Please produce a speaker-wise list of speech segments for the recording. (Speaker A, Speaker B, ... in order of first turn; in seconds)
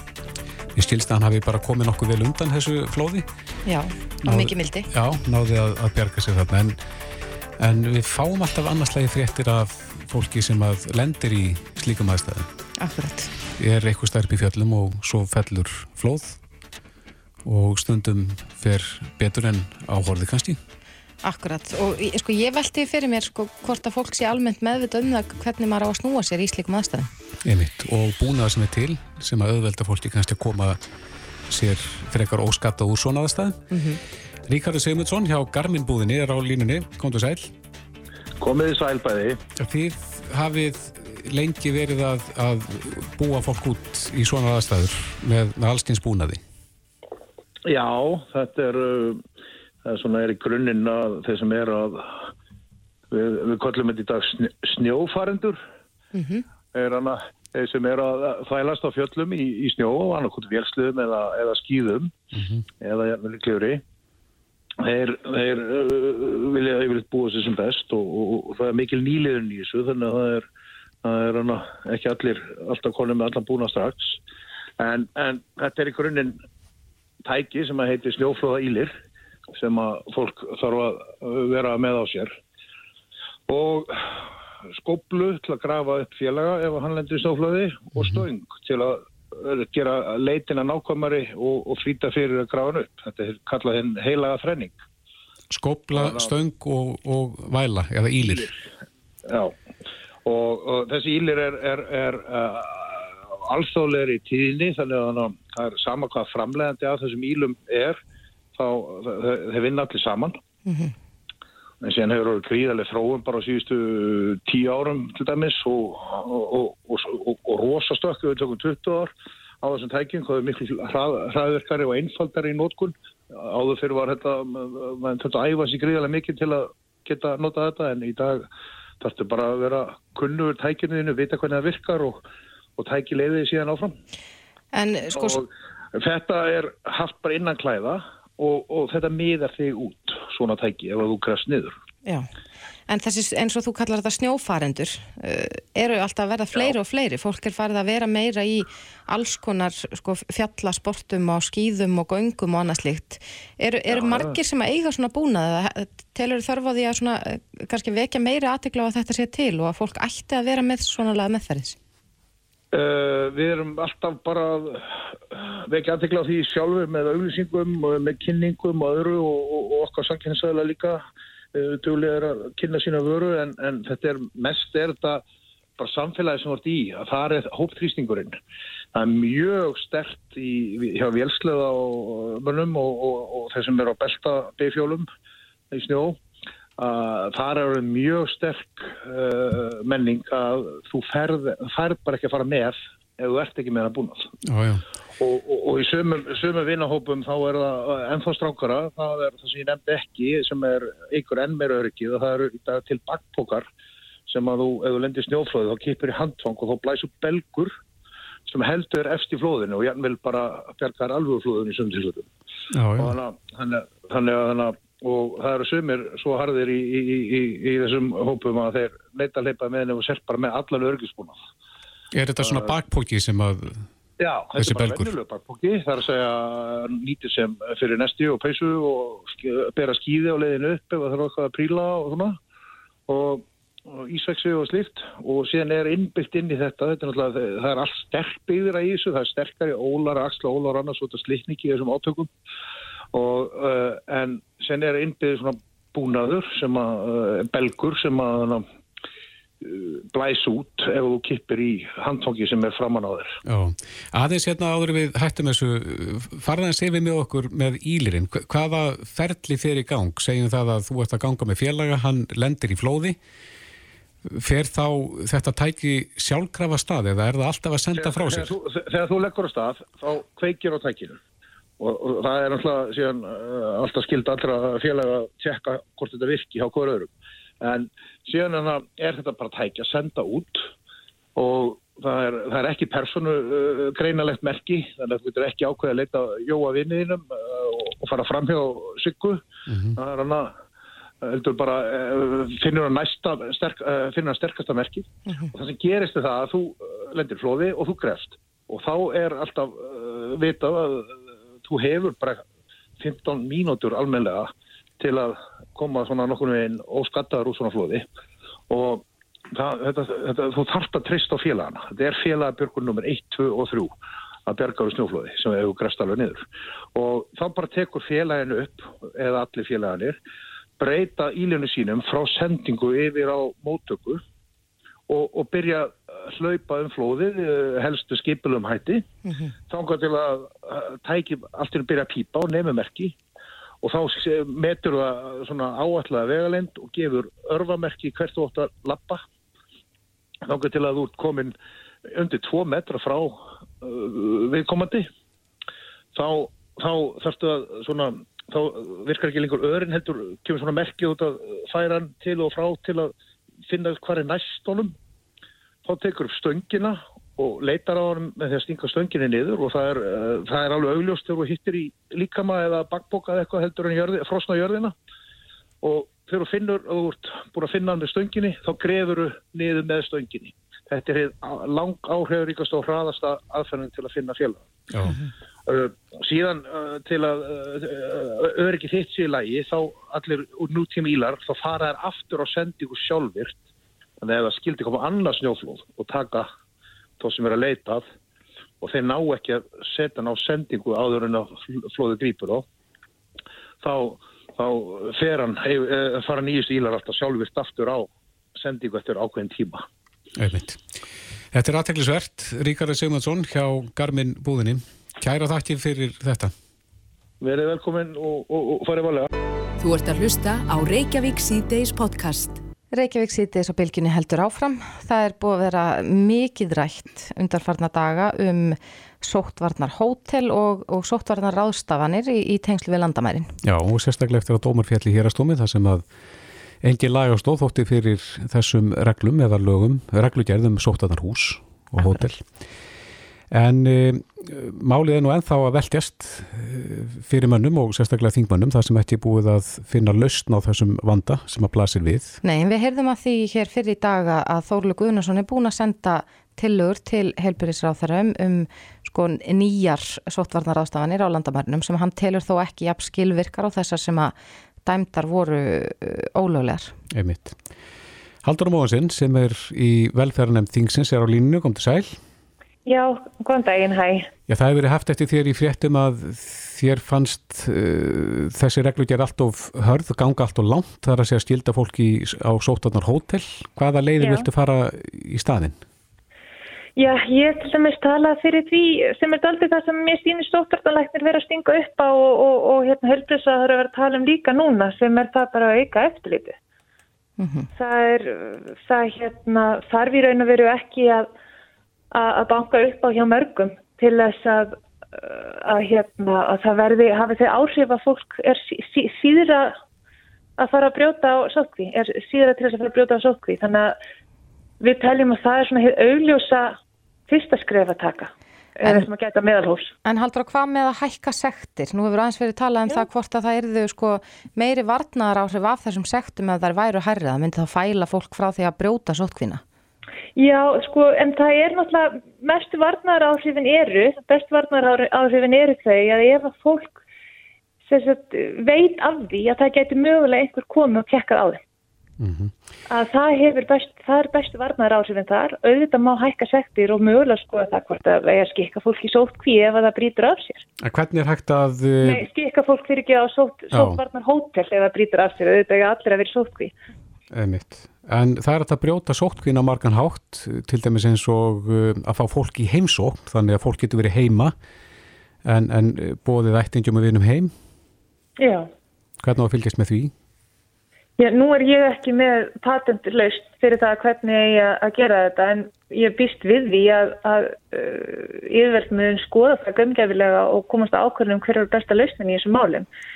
Speaker A: 0.8-3.3, 4.3-6.8, 7.6-12.5, 13.6-16.4, 17.4-20.6, 27.4-30.8, 31.5-33.6, 34.5-37.5, 39.6-46.4, 62.4-62.6, 88.0-88.2, 95.5-98.5, 194.5-194.8, 212.7-213.2, 222.1-223.8, 224.6-225.1, 253.5-263.2, 264.3-268.5, 289.7-290.0, 374.9-375.2, 400.4-400.8, 401.5-406.5, 423.6-426.1, 426.8-432.4, 433.5-442.4, 457.1-457.6, 458.4-462.2, 464.5-475.8, 532.2-532.5, 540.8-542.2, 543.7-544.0, 547.3-554.5, 555.5-557.5, 559.2-560.1
Speaker B: 3.6-4.9, 12.8-13.3, 21.2-27.1, 33.7-34.0, 56.1-56.5, 110.7-110.9, 134.7-135.4, 142.9-161.8, 412.9-423.5, 442.4-456.9, 487.4-487.7, 510.1-519.6
Speaker C: 38.4-39.4, 47.7-49.2, 49.9-52.2, 53.1-55.6, 56.7-62.2, 62.8-63.8, 64.8-70.5, 71.0-74.2, 74.8-76.4, 77.2-78.9, 79.5-82.3, 83.5-84.2, 84.8-94.8, 95.9-96.3, 98.2-98.5, 99.3-99.5, 100.2-108.0, 108.5-110.4, 111.8-128.4, 129.0-132.2, 132.8-133.9, 135.1-141.7, 153.9-154.3, 162.7-171.0, 171.5-175.2, 175.8-178.4, 178.9-185.1, 185.7-186.2, 186.8-194.3, 195.2-203.7, 204.3-207.7, 208.5-212.3, 213.0-221.4, 222.4-222.7, 224.2-232.4, 233.1-242.3, 243.1-248.7, 249.6-253.4, 268.0-271.2, 271.8-277.1, 277.6-280.6, 281.4-289.4, 290.0-290.5, 291.2-302.4, 303.0-308.1, 308.7-313.9, 314.5-316.4, 316.9-320.2, 320.8-324.2, 325.1-329.1, 329.7-333.2, 333.8-339.2, 340.4-341.5, 342.1-345.1, 346.1-353.1, 353.7-354.9, 355.9-364.9, 365.8-374.6, 375.7-383.6, 384.2-386.5, 387.2-388.1, 388.8-392.7, 393.8-399.8, 407.4-409.3
Speaker D: 409.8-412.6
Speaker E: 462.9-464.3, 474.2-474.5, 477.0-486.6, 487.8-491.3, 492.1-499.8, 500.6-503.9, 504.8-506.8, 507.3-509.9, 520.4-527.0, 527.9-531.6, 532.9-540.6, 542.0-546.7, 558.4-558.7, 561.2-572.9